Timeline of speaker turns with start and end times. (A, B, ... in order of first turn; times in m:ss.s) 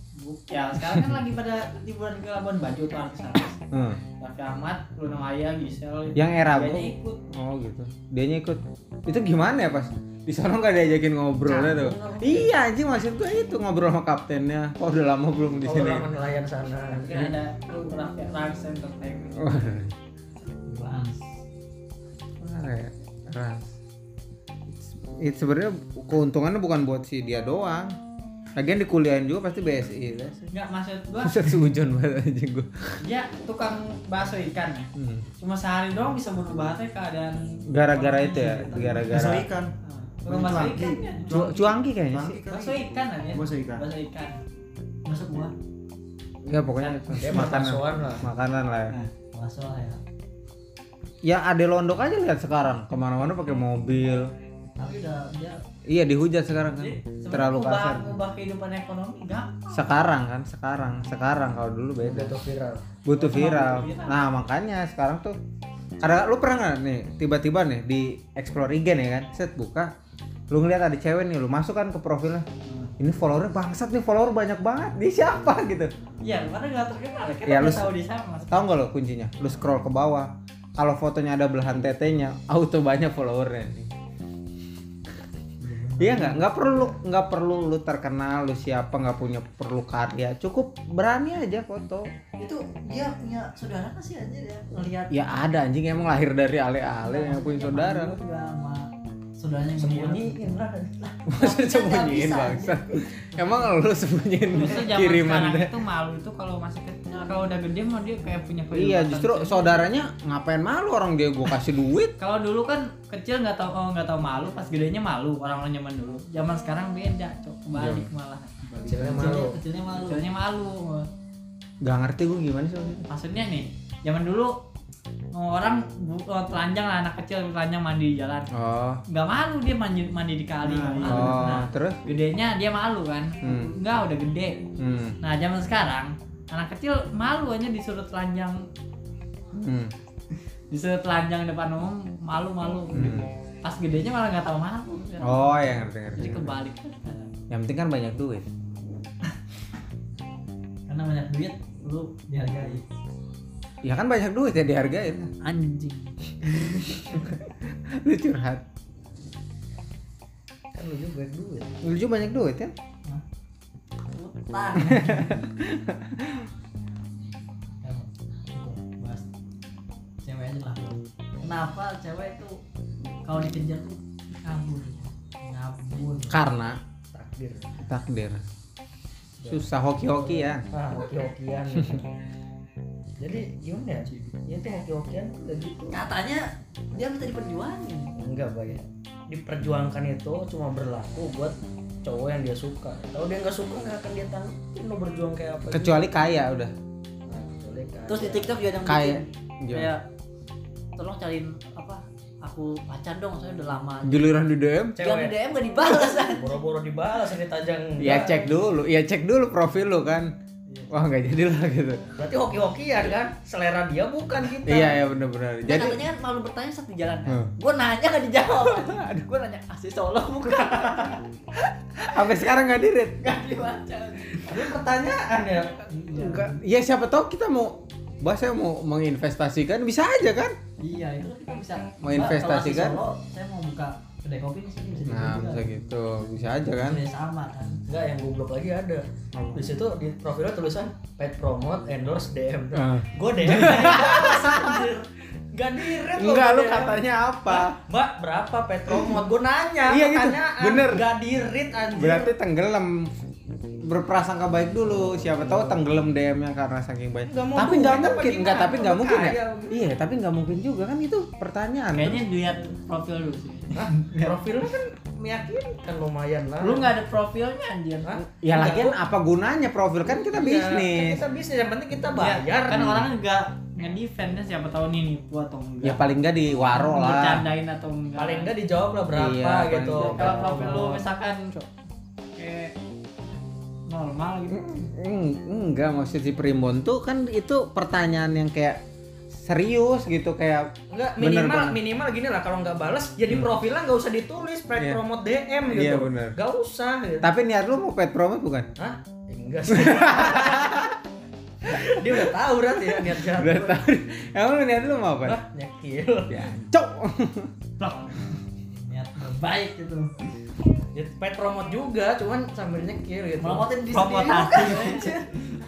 0:00.2-0:03.6 A
0:03.7-0:04.0 B
0:04.2-0:07.2 A
0:06.1-0:16.1 B
0:11.4-0:12.5 C
0:15.6-0:17.3 C
0:16.9-0:19.8 A
0:19.4-0:19.9 B
0:20.6-0:21.2 D
0:22.4-0:23.7 B
0:24.7-0:28.0 B
0:28.6-0:30.5 B
0:30.5-0:31.7 A
0:31.2-0:33.0 B
0:33.0-0:38.5 A
0:34.9-0:35.3 B
0:37.7-0:39.5 B
0:38.1-0:39.5 D
0:39.1-0:39.7 E
0:39.8-0:41.4 A
0:40.2-0:42.8 E
0:40.5-0:41.2 D
0:41.2-0:42.4 B
0:42.5-0:44.4 A
0:43.3-0:43.8 E
0:45.0-0:45.5 D
0:46.4-0:49.0 B
0:46.8-0:47.5 A
0:47.2-0:48.2 C
0:48.9-0:50.0 D
0:51.2-0:54.3 B
0:54.8-0:55.6 D
0:55.9-0:58.2 B
0:56.8-0:59.9 A
0:59.7-1:02.3 B
1:02.0-1:02.9 C
1:03.0-1:05.4 B
1:03.1-1:04.2 A
1:06.0-1:09.9 B
1:10.5-1:12.4 B
1:12.6-1:12.9 A
1:13.0-1:15.9 B
1:16.2-1:18.7 A
1:17.4-1:17.9 B
1:18.5-1:23.9 B
1:25.6-1:26.4 D
1:26.0-1:32.1 B
1:32.4-1:35.2 D
1:35.1-1:38.2 B
1:37.0-1:40.6 D
1:39.8-1:41.1 C
1:41.2-1:43.7 D
1:41.3-1:45.7 B
1:44.5-1:49.8 A
1:48.7-1:52.1 B
1:52.2-1:58.7 A
1:57.7-1:58.0 B
1:58.8-1:59.6 C
1:59.1-2:00.2 D
1:59.2-1:59.4 B
2:00.0-2:01.1 A
2:01.8-2:03.1 B
2:03.1-2:04.5 A
2:05.3-2:08.5 A
2:08.5-2:09.0 B
2:09.1-2:14.6 A
2:10.8-2:11.4 D
2:11.0-2:12.0 B
2:13.4-2:13.7 B
2:14.8-2:15.2 B
2:15.2-2:18.6 A
2:19.5-2:19.9 B
2:20.7-2:25.5 A
2:22.9-2:23.3 B
2:25.2-2:26.5 B
2:26.1-2:27.3 A
2:27.5-2:28.4 B
2:30.9-2:32.9 D
2:33.8-2:35.3 B
2:35.4-2:36.1 A
2:37.1-2:38.6 B
2:40.7-2:41.7 C
2:41.8-2:42.7 B
2:44.1-2:45.5 D
2:44.8-2:46.5 B
2:47.8-2:49.2 D
2:50.2-2:52.6 D
2:53.2-2:56.4 D
2:56.3-2:56.8 B
2:57.1-2:57.7 C
2:57.8-2:58.4 B
2:59.4-3:02.1 C
2:59.5-3:00.6 B
3:03.2-3:06.0 C
3:04.0-3:04.3 D
3:05.9-3:08.1 D
3:08.2-3:16.1 C
3:15.7-3:16.7 B
3:17.3-3:18.7 C
3:18.1-3:20.0 D
3:18.8-3:19.9 B
3:21.0-3:24.2 D
3:24.0-3:25.0 B
3:25.0-3:28.5 C
3:25.0-3:26.6 D
3:28.0-3:30.3 B
3:30.7-3:30.9 D
3:30.9-3:32.0 B
3:32.2-3:35.0 C
3:34.6-3:36.0 B
3:35.6-3:41.2 D
3:38.4-3:39.2 B
3:40.6-3:41.2 B
3:41.8-3:43.2 B
3:43.2-3:44.7 D
3:44.4-3:45.8 C
3:45.9-3:46.6 D
3:46.1-3:50.5 B
3:50.8-3:55.8 D
3:52.0-3:53.0 B
3:55.0-3:57.0 B
3:56.4-3:57.8 D
3:57.9-4:12.3 C
3:59.3-3:59.8 B
4:02.7-4:04.8 B
4:05.9-4:07.7 B
4:09.8-4:11.0 B
4:12.0-4:13.1 B
4:13.7-4:22.2 B
4:15.0-4:15.8 C
4:17.3-4:19.8 C
4:21.9-4:24.4 A
4:23.7-4:26.9 C
4:26.6-4:28.2 A
4:28.0-4:29.0 C
4:28.2-4:31.2 B
4:30.0-4:33.1 C
4:32.1-4:38.5 A
4:35.8-4:37.5 B
4:38.2-4:41.1 C
4:39.1-4:40.9 B
4:40.0-4:41.6 A
4:42.4-4:42.7 A
4:43.9-4:44.6 A
4:44.5-4:48.8 B
4:49.3-4:51.8 B
4:50.9-4:57.3 C
4:55.7-4:56.4 B
4:57.2-4:58.7 B
4:58.8-5:00.8 C
4:59.7-5:01.0 B
5:01.6-5:03.8 C
5:01.8-5:05.4 B
5:05.2-5:06.5 C
5:06.3-5:07.5 B
5:07.8-5:08.4 A
5:08.7-5:10.1 D
5:10.9-5:13.8 C
5:13.4-5:15.2 D
5:13.9-5:15.2 A